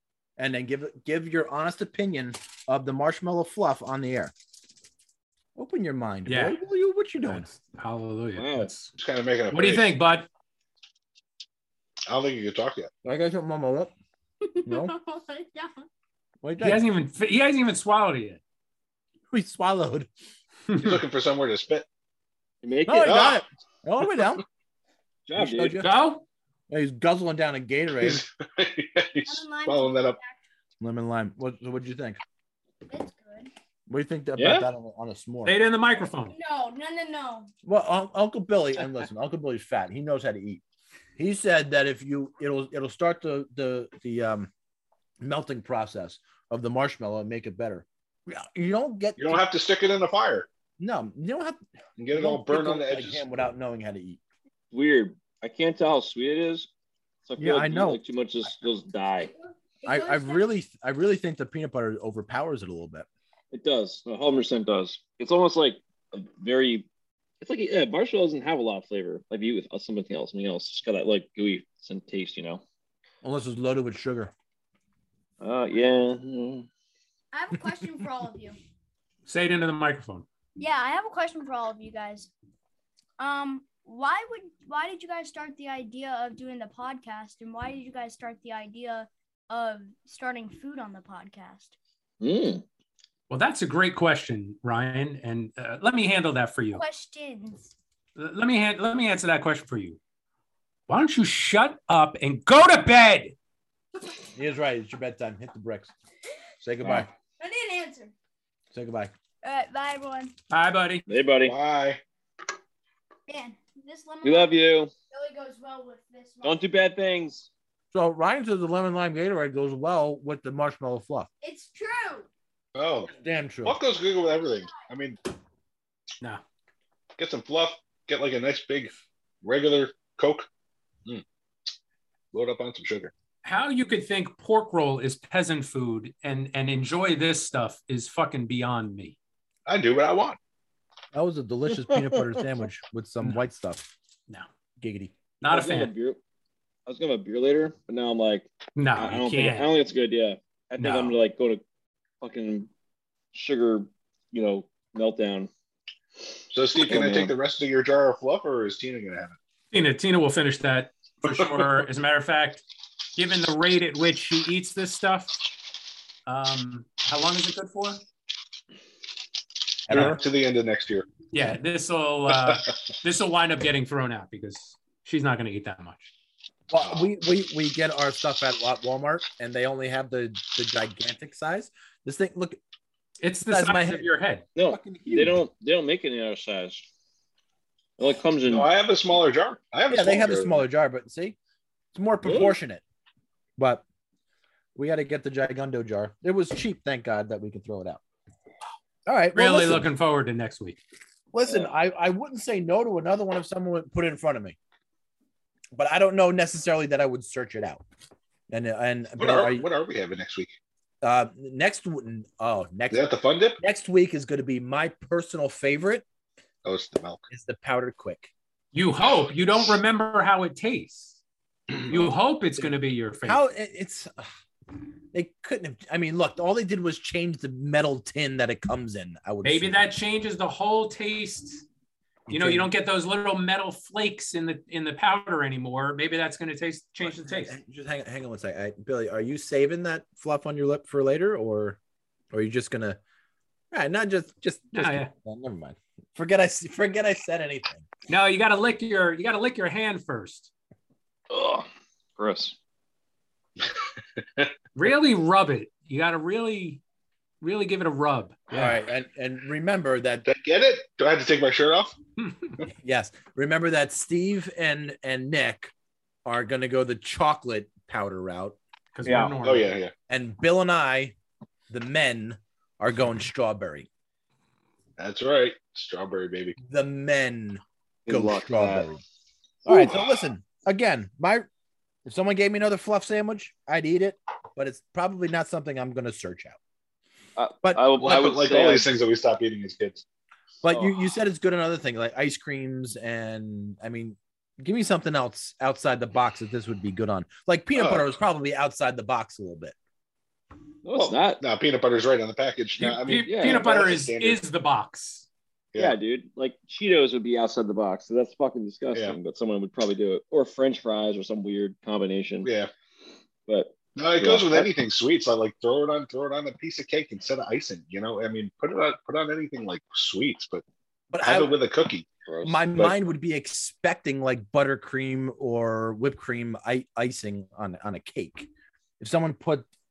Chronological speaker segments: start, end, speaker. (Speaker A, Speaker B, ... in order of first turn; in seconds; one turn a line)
Speaker A: 0.4-4.3
Speaker A: 5.5-7.5
Speaker B: 6.3-6.6
Speaker B: 7.2-8.9
Speaker C: 8.3-8.7
Speaker D: 9.0-9.9
Speaker B: 9.5-10.3
Speaker D: 12.1-12.9
Speaker A: 13.0-13.9
Speaker A: 14.6-14.9
Speaker B: 14.7-15.8
Speaker A: 16.4-16.8
Speaker B: 16.6-18.4
Speaker A: 19.3-20.1
Speaker B: 20.7-21.0
Speaker D: 20.8-21.9
Speaker C: 22.6-23.2
Speaker A: 22.9-24.4
Speaker D: 23.0-23.4
Speaker C: 25.2-25.8
Speaker A: 25.4-25.9
Speaker B: 25.8-26.2
Speaker A: 26.7-28.2
Speaker D: 28.0-30.2
Speaker E: 29.3-30.4
Speaker A: 30.8-32.2
Speaker E: 32.9-33.5
Speaker A: 33.9-35.5
Speaker C: 34.4-34.7
Speaker B: 35.5-36.3
Speaker E: 36.3-37.5
Speaker A: 37.6-40.6
Speaker A: 41.2-44.5
Speaker A: 45.2-49.4
Speaker D: 49.2-50.5
Speaker A: 50.8-51.6
Speaker D: 52.0-53.2
Speaker A: 52.1-54.2
Speaker C: 54.7-56.7
Speaker C: 57.2-59.3
Speaker A: 57.4-58.0
Speaker E: 59.8-60.5
Speaker A: 59.9-63.1
Speaker C: 63.5-66.9
Speaker C: 67.4-72.6
Speaker A: 73.2-74.3
Speaker C: 75.4-76.7
Speaker E: 77.3-78.5
Speaker B: 79.2-80.2
Speaker E: 80.6-82.3
Speaker E: 83.2-91.7
Speaker C: 92.2-92.6
Speaker B: 93.3-96.8
Speaker E: 96.7-97.7
Speaker B: 98.2-100.0
Speaker B: 100.9-103.3
Speaker A: 104.3-105.9
Speaker A: 106.6-107.1
Speaker E: 107.4-108.1
Speaker A: 108.7-109.1
Speaker E: 109.4-110.3
Speaker B: 110.5-111.0
Speaker C: 111.1-111.5
Speaker D: 111.4-112.0
Speaker E: 113.3-116.6
Speaker C: 114.2-114.9
Speaker C: 116.4-117.5
Speaker A: 117.9-121.3
Speaker E: 121.4-122.3
Speaker D: 122.7-125.2
Speaker A: 123.2-123.8
Speaker D: 127.2-130.5
Speaker D: 132.3-133.1
Speaker B: 133.4-139.2
Speaker D: 139.7-140.4
Speaker A: 141.1-143.9
Speaker A: 144.8-145.1
Speaker B: 145.4-145.9
Speaker C: 145.4-146.2
Speaker C: 146.9-151.6
Speaker B: 148.8-149.7
Speaker B: 150.8-151.2
Speaker C: 152.2-152.7
Speaker C: 153.3-155.5
Speaker D: 156.5-159.3
Speaker C: 156.7-157.3
Speaker B: 159.7-162.6
Speaker D: 161.2-161.7
Speaker B: 163.2-165.4
Speaker B: 166.2-168.0
Speaker A: 169.9-170.2
Speaker D: 169.9-171.1
Speaker B: 171.3-176.1
Speaker A: 176.7-182.6
Speaker D: 176.8-177.1
Speaker B: 183.2-184.4
Speaker A: 183.5-184.1
Speaker C: 184.6-186.8
Speaker A: 184.7-185.4
Speaker C: 188.0-188.7
Speaker D: 188.4-190.6
Speaker A: 189.9-191.3
Speaker A: 191.9-192.8
Speaker C: 192.2-192.6
Speaker A: 193.6-193.8
Speaker A: 194.8-198.0
Speaker A: 199.1-199.9
Speaker B: 199.3-200.8
Speaker A: 201.3-204.6
Speaker A: 205.7-207.8
Speaker A: 208.5-209.7
Speaker D: 209.2-210.5
Speaker A: 211.0-213.0
Speaker D: 212.9-213.6
Speaker A: 213.6-216.0
Speaker D: 216.6-217.2
Speaker A: 217.3-218.3
Speaker B: 218.7-221.2
Speaker B: 221.9-223.4
Speaker A: 221.9-224.3
Speaker A: 225.1-229.8
Speaker B: 229.4-231.6
Speaker A: 232.3-232.7
Speaker B: 232.3-237.6
Speaker A: 237.0-241.8
Speaker A: 242.3-243.0
Speaker A: 243.7-247.9
Speaker B: 244.7-245.1
Speaker B: 248.1-250.5
Speaker C: 251.3-251.7
Speaker C: 252.2-252.6
Speaker B: 254.7-256.8
Speaker B: 257.4-258.8
Speaker A: 258.5-260.2
Speaker D: 260.2-261.9
Speaker B: 262.2-262.5
Speaker A: 262.8-265.7
Speaker A: 266.2-268.6
Speaker B: 268.9-269.7
Speaker C: 269.0-269.3
Speaker D: 269.1-269.9
Speaker A: 270.1-271.1
Speaker A: 271.7-273.9
Speaker D: 275.0-276.6
Speaker A: 276.6-279.0
Speaker C: 278.1-278.9
Speaker A: 279.6-281.5
Speaker D: 279.7-280.1
Speaker A: 282.1-286.6
Speaker C: 287.4-288.9
Speaker D: 288.0-290.0
Speaker A: 290.6-299.7
Speaker D: 297.7-298.1
Speaker C: 300.8-301.4
Speaker D: 300.9-304.4
Speaker B: 302.8-305.2
Speaker C: 303.2-303.6
Speaker C: 305.8-312.5
Speaker D: 312.4-312.7
Speaker C: 313.5-314.7
Speaker D: 313.9-320.6
Speaker A: 321.1-321.6
Speaker D: 321.2-322.1
Speaker C: 322.2-322.8
Speaker A: 322.4-328.5
Speaker A: 329.0-329.7